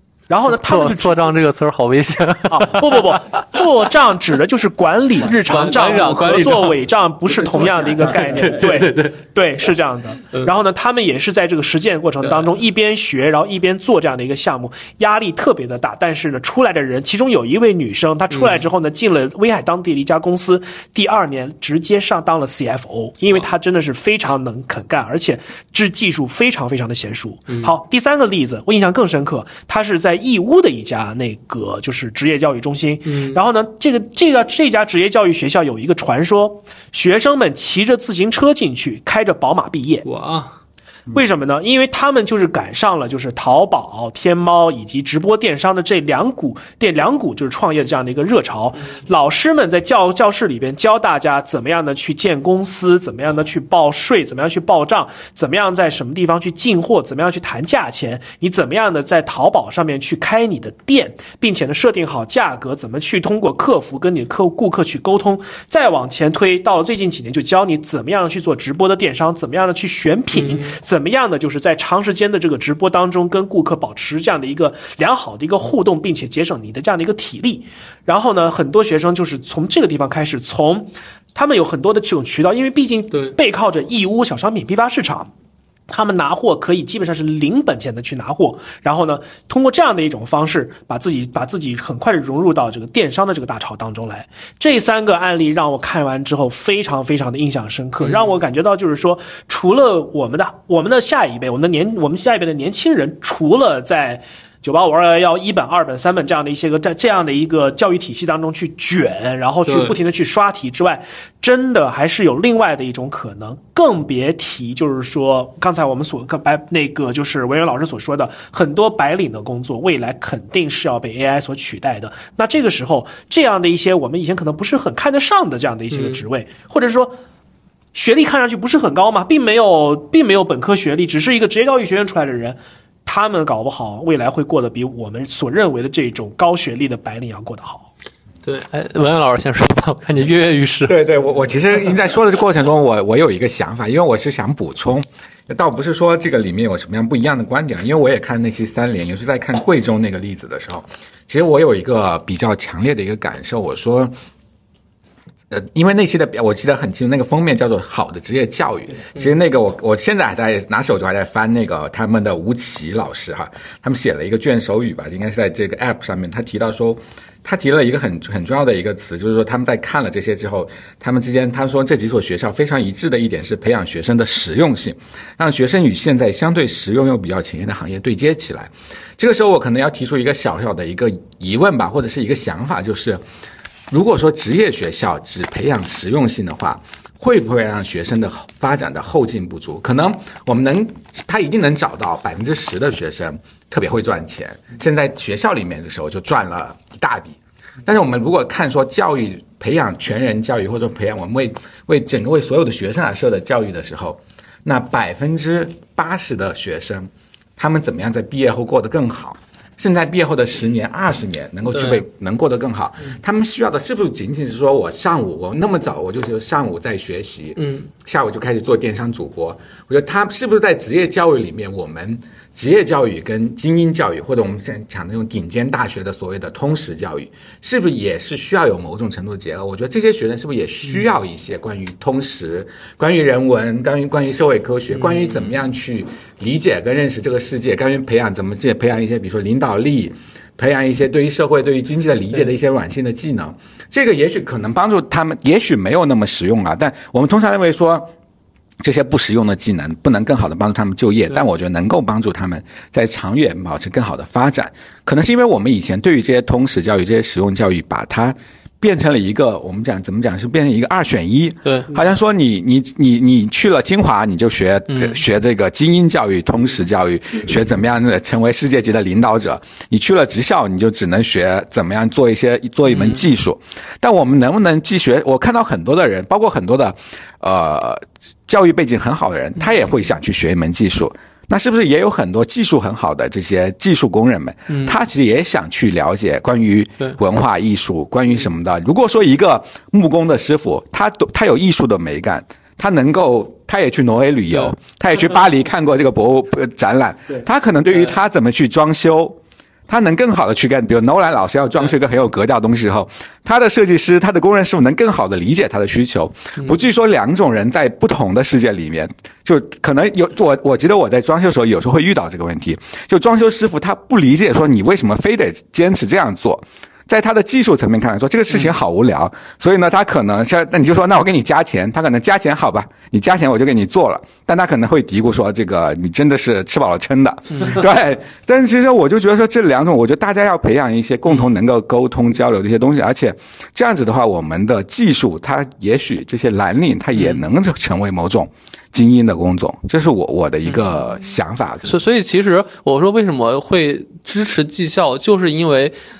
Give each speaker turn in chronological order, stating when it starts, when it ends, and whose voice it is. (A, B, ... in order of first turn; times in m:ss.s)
0:00.3-0:01.3 A
0:00.5-0:03.2 B
0:02.5-0:40.0 A
0:05.5-0:06.8 B
0:07.4-0:09.2 B
0:33.1-0:33.4 B
0:40.0-0:40.5 B
0:41.1-1:25.3 A
1:10.4-1:10.7 B
1:25.9-2:07.2 A
1:38.0-1:38.4 B
1:49.6-1:50.0 B
2:05.9-2:06.2 B
2:07.9-2:17.9 A
2:18.4-2:21.0 B
2:20.9-2:34.1 C
2:35.5-3:03.2 C
3:03.9-4:08.1 C
3:31.7-3:32.0 B
3:37.6-3:37.8 B
4:08.8-4:59.4 C
4:21.6-4:22.0 B
4:24.9-4:25.2 B
4:32.9-4:33.2 B
4:44.7-4:45.0 B
4:59.9-5:41.9 C
5:41.8-5:45.9 B